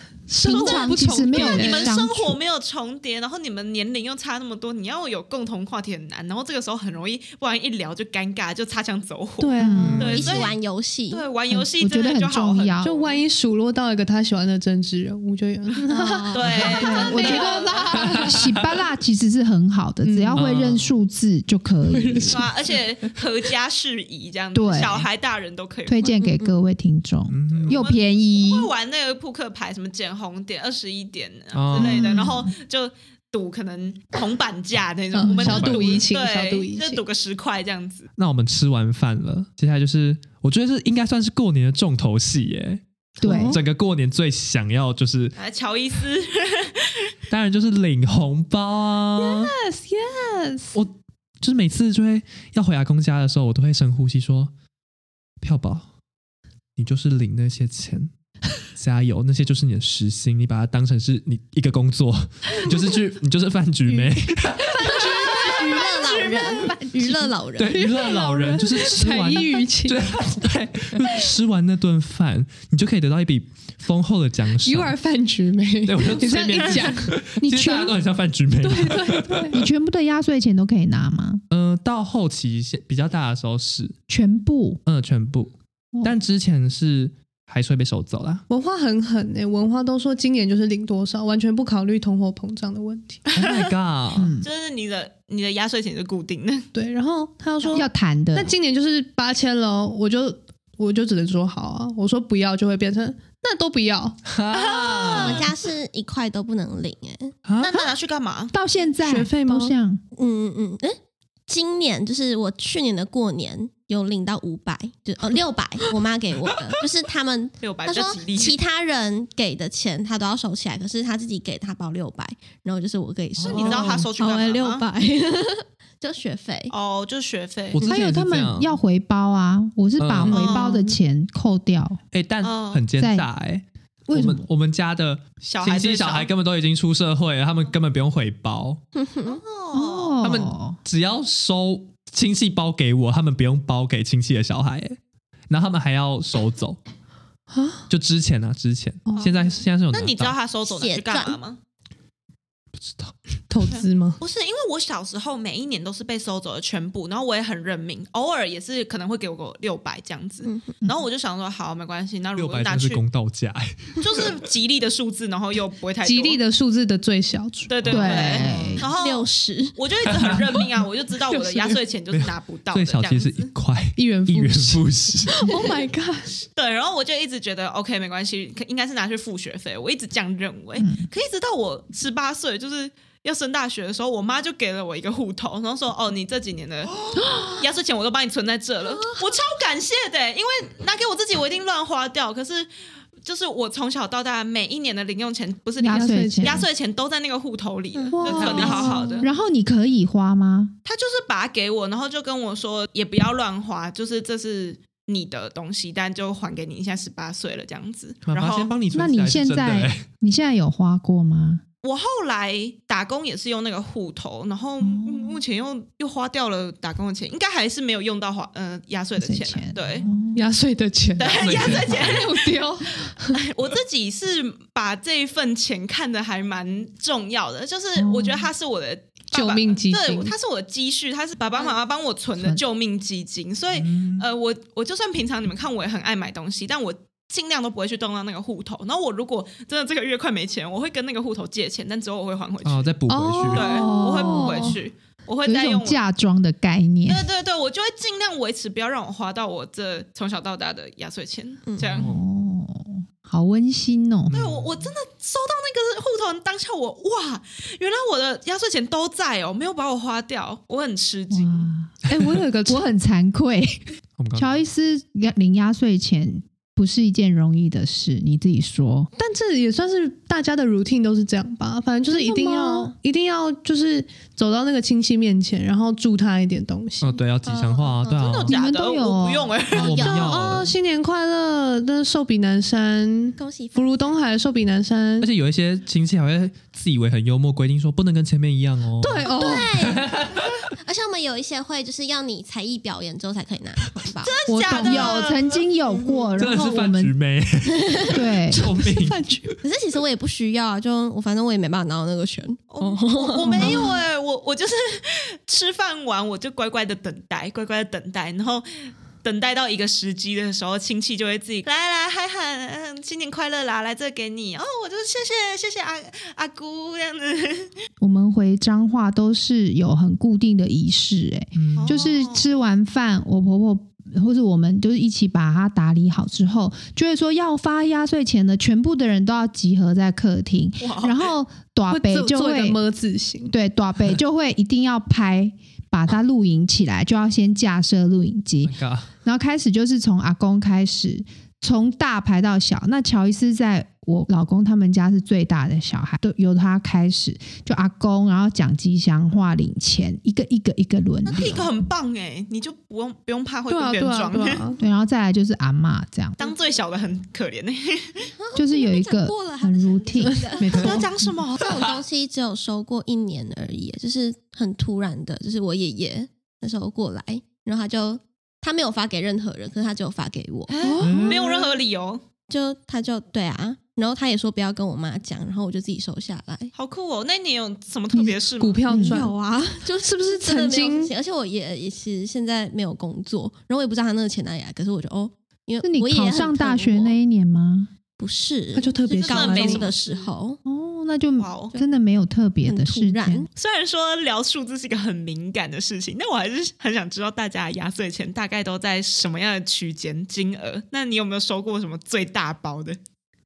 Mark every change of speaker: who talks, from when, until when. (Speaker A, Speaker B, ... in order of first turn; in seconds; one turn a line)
Speaker A: 0.3-1.9
Speaker B: 0.4-2.4
Speaker C: 0.4-10.6
Speaker A: 9.4-10.3
Speaker B: 9.6-10.1
Speaker D: 9.8-10.2
Speaker E: 10.0-11.3
Speaker C: 11.1-13.2
Speaker B: 11.5-12.9
Speaker A: 12.8-18.3
Speaker C: 16.3-18.1
Speaker B: 16.6-22.4
Speaker D: 18.1-18.4
Speaker A: 20.0-20.4
Speaker D: 20.3-20.9
Speaker A: 21.9-22.5
Speaker C: 22.3-26.1
Speaker B: 24.5-25.1
Speaker B: 25.9-28.7
Speaker E: 26.2-26.5
Speaker D: 27.3-27.8
Speaker C: 27.5-38.1
Speaker D: 31.5-32.0
Speaker A: 31.8-32.3
Speaker B: 31.8-32.4
Speaker A: 35.1-37.0
Speaker D: 35.4-36.0
Speaker D: 38.2-45.4
Speaker B: 43.2-43.6
Speaker A: 43.2-43.6
Speaker C: 45.4-47.1
Speaker D: 47.3-49.5
Speaker A: 49.2-50.8
Speaker D: 50.7-54.5
Speaker D: 55.4-55.9
Speaker D: 56.8-58.1
Speaker D: 58.7-65.0
Speaker A: 63.9-67.0
Speaker C: 65.0-66.7
Speaker E: 65.1-67.8
Speaker D: 67.5-74.9
Speaker A: 67.7-70.0
Speaker A: 74.6-77.9
Speaker D: 75.8-79.6
Speaker B: 77.4-77.9
Speaker A: 78.6-79.6
Speaker B: 79.5-81.4
Speaker D: 81.5-84.0
Speaker B: 84.1-84.8
Speaker D: 84.8-88.4
Speaker A: 88.5-93.2
Speaker C: 93.3-93.7
Speaker D: 93.3-94.3
Speaker B: 94.1-94.5
Speaker C: 94.4-96.7
Speaker A: 96.7-104.2
Speaker B: 97.7-98.5
Speaker D: 104.2-105.5
Speaker C: 104.5-105.5
Speaker E: 105.1-107.4
Speaker D: 107.5-107.9
Speaker C: 107.6-108.5
Speaker B: 108.5-110.0
Speaker A: 109.0-109.7
Speaker E: 110.2-126.7
Speaker C: 117.6-118.6
Speaker D: 123.4-124.1
Speaker C: 123.4-124.8
Speaker C: 126.7-127.8
Speaker D: 127.7-128.8
Speaker B: 127.8-132.0
Speaker D: 130.0-130.4
Speaker C: 130.3-130.9
Speaker A: 130.3-130.8
Speaker D: 132.1-138.8
Speaker C: 132.4-132.8
Speaker B: 133.0-133.3
Speaker B: 134.1-134.4
Speaker C: 135.4-136.3
Speaker E: 138.9-139.4
Speaker C: 139.2-140.3
Speaker B: 139.7-140.8
Speaker D: 140.2-145.0
Speaker D: 145.5-146.8
Speaker A: 147.5-147.8
Speaker D: 147.9-150.3
Speaker A: 149.1-149.4
Speaker C: 149.1-151.6
Speaker E: 150.7-151.4
Speaker D: 152.8-153.1
Speaker A: 153.5-154.2
Speaker C: 154.2-163.0
Speaker E: 160.4-160.7
Speaker D: 162.3-164.3
Speaker C: 164.0-166.4
Speaker A: 166.0-168.8
Speaker C: 167.7-173.5
Speaker D: 167.8-168.4
Speaker B: 167.9-168.8
Speaker E: 168.8-169.8
Speaker D: 170.1-170.6
Speaker A: 171.3-171.8
Speaker D: 172.1-175.5
Speaker A: 173.9-176.4
Speaker C: 176.5-192.7
Speaker B: 180.8-181.1
Speaker C: 193.2-199.3
Speaker B: 195.8-196.6
Speaker A: 195.9-196.6
Speaker E: 197.9-199.1
Speaker A: 198.1-199.3
Speaker D: 198.3-198.9
Speaker B: 198.5-200.7
Speaker C: 200.8-208.7
Speaker D: 208.2-210.0
Speaker B: 208.9-211.6
Speaker C: 211.8-220.1
Speaker B: 214.8-215.4
Speaker B: 219.2-220.4
Speaker A: 220.3-223.4
Speaker C: 221.2-222.5
Speaker D: 221.3-222.3
Speaker C: 223.3-242.9
Speaker B: 228.0-228.5
Speaker A: 229.3-230.3
Speaker D: 233.7-234.2
Speaker D: 242.6-243.8
Speaker A: 243.1-244.8
Speaker C: 243.5-246.0
Speaker B: 243.6-244.8
Speaker B: 245.4-247.2
Speaker C: 247.1-252.1
Speaker D: 251.9-252.2
Speaker B: 252.0-254.3
Speaker D: 254.2-254.9
Speaker C: 254.3-261.7
Speaker B: 261.3-262.0
Speaker A: 262.1-262.9
Speaker B: 262.6-263.8
Speaker D: 264.2-264.6
Speaker B: 264.4-269.1
Speaker A: 269.1-277.2
Speaker B: 272.1-272.9
Speaker D: 277.0-278.6
Speaker E: 277.5-278.1
Speaker C: 278.0-280.0
Speaker B: 278.5-279.6
Speaker E: 279.7-280.3
Speaker D: 279.7-280.7
Speaker A: 279.9-285.3
Speaker E: 283.4-284.1
Speaker D: 285.2-290.6
Speaker A: 289.0-289.9
Speaker E: 289.2-290.1
Speaker E: 290.8-294.3
Speaker C: 294.2-296.2
Speaker B: 294.5-297.1
Speaker A: 294.7-295.0
Speaker E: 295.9-296.2
Speaker D: 296.4-299.5
Speaker E: 297.7-298.2
Speaker B: 298.1-298.6
Speaker A: 298.8-299.6
Speaker E: 299.6-303.9
Speaker C: 302.7-317.7
Speaker B: 303.5-303.8
Speaker B: 318.0-332.8
Speaker D: 321.5-322.0
Speaker C: 321.7-322.5
Speaker C: 330.8-331.3
Speaker A: 331.9-333.5
Speaker B: 333.5-351.7
Speaker D: 338.6-339.1
Speaker C: 351.3-354.7
Speaker A: 353.7-354.8
Speaker B: 354.8-356.4
Speaker C: 356.4-358.3
Speaker E: 356.4-356.7
Speaker E: 358.4-361.0
Speaker B: 358.5-361.0
Speaker A: 360.3-361.1
Speaker C: 360.7-361.9
Speaker E: 361.6-370.7
Speaker C: 370.7-372.2
Speaker A: 370.8-371.7
Speaker D: 371.0-371.4
Speaker E: 372.5-376.7
Speaker C: 376.7-378.8
Speaker A: 378.6-381.1
Speaker B: 378.9-379.2
Speaker E: 378.9-387.1
Speaker B: 385.8-387.9
Speaker E: 388.2-390.6
Speaker A: 388.7-389.9
Speaker C: 389.2-390.3
Speaker B: 390.6-393.5
Speaker C: 391.4-391.7
Speaker E: 392.6-393.5
Speaker C: 393.6-403.0